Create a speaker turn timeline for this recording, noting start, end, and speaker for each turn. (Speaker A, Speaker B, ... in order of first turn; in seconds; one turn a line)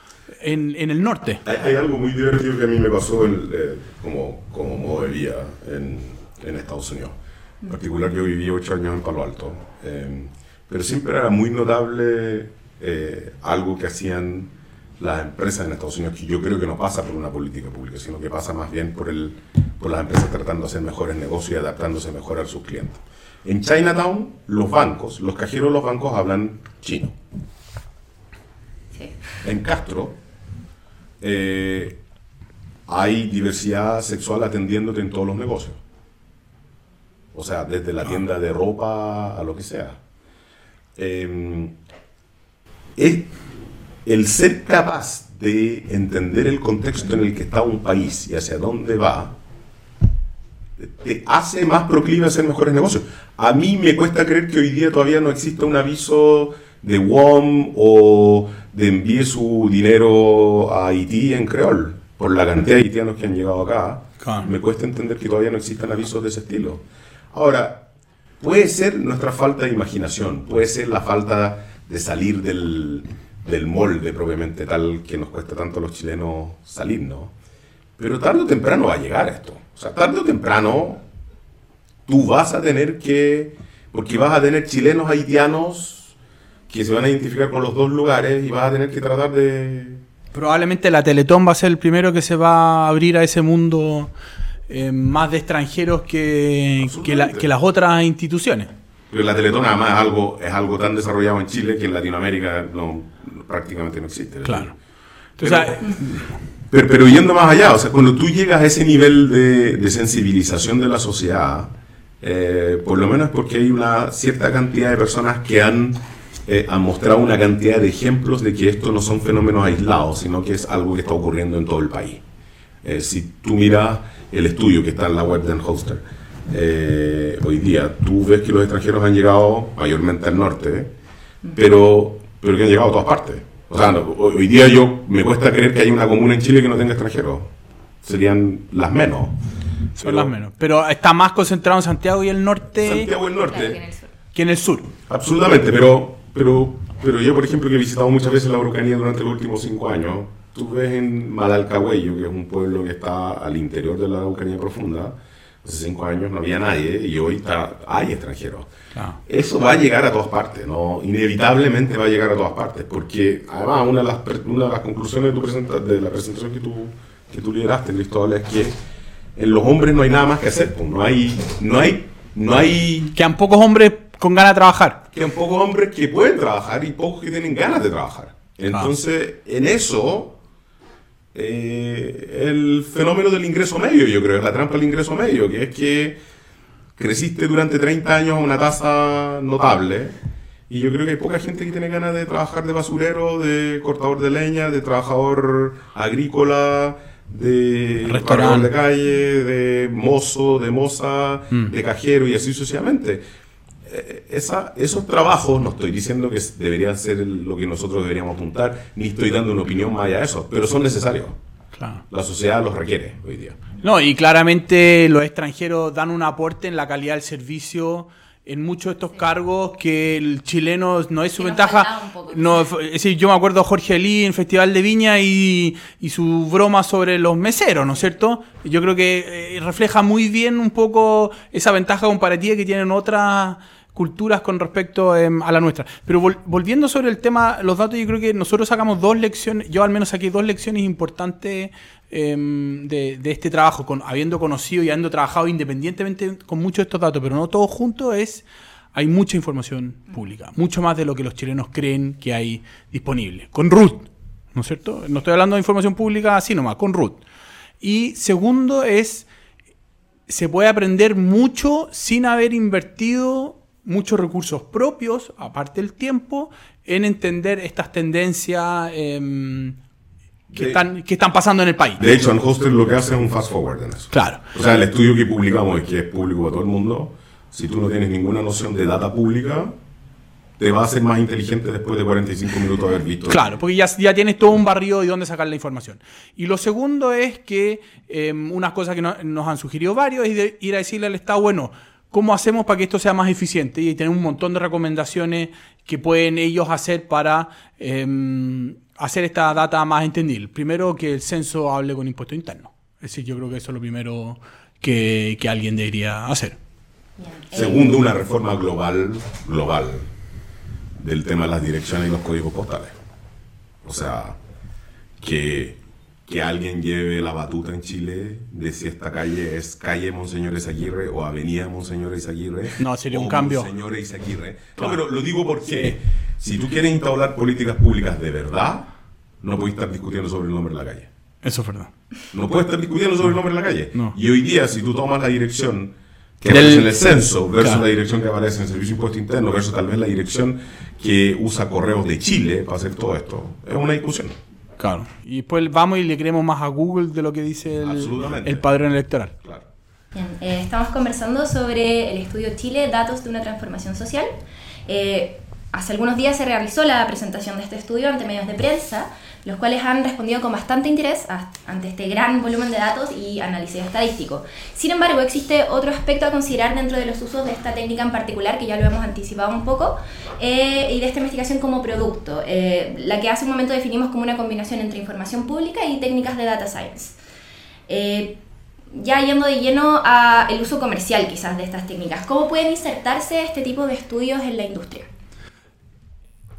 Speaker A: 0.4-1.4
Speaker B: 1.4-27.1
Speaker B: 29.4-30.2
Speaker B: 31.2-32.0
Speaker B: 32.9-35.8
Speaker B: 37.3-40.0
Speaker B: 41.0-41.7
Speaker B: 43.0-43.4
Speaker B: 44.0-49.3
Speaker B: 50.8-67.8
Speaker A: 64.2-64.5
Speaker B: 68.4-77.3
Speaker B: 78.0-81.0
Speaker B: 82.1-86.1
Speaker B: 86.7-90.0
Speaker A: 90.3-94.1
Speaker A: 94.7-98.7
Speaker B: 96.8-97.5
Speaker B: 99.1-104.8
Speaker A: 104.4-104.7
Speaker A: 105.4-106.2
Speaker B: 105.4-122.2
Speaker B: 122.8-130.9
Speaker B: 131.5-137.5
Speaker B: 138.0-139.4
Speaker A: 140.0-143.1
Speaker B: 140.0-140.3
Speaker B: 142.8-143.8
Speaker C: 143.5-144.1
Speaker A: 144.3-144.9
Speaker B: 145.1-158.7
Speaker B: 159.2-168.8
Speaker B: 169.3-173.1
Speaker A: 173.1-175.0
Speaker B: 175.1-180.4
Speaker B: 181.3-186.2
Speaker B: 187.0-190.2
Speaker B: 190.7-203.2
Speaker A: 198.0-198.7
Speaker B: 203.8-211.4
Speaker A: 211.7-212.0
Speaker B: 212.1-213.6
Speaker A: 213.8-257.2
Speaker C: 221.4-222.7
Speaker A: 257.8-259.3
Speaker A: 260.3-269.8
Speaker B: 270.5-270.8
Speaker A: 270.5-272.1
Speaker B: 272.0-279.7
Speaker A: 274.1-274.4
Speaker B: 280.6-283.6
Speaker A: 283.3-306.6
Speaker C: 307.2-307.9
Speaker B: 307.5-310.1
Speaker B: 311.0-312.9
Speaker B: 313.8-314.4
Speaker B: 315.2-328.9
Speaker A: 322.8-323.7
Speaker B: 329.4-331.1
Speaker A: 331.4-331.9
Speaker B: 332.3-344.4
Speaker A: 336.5-336.9
Speaker A: 344.8-349.3
Speaker B: 347.8-348.6
Speaker C: 350.1-354.3
Speaker C: 354.9-377.1
Speaker C: 377.9-378.4
Speaker C: 378.9-385.1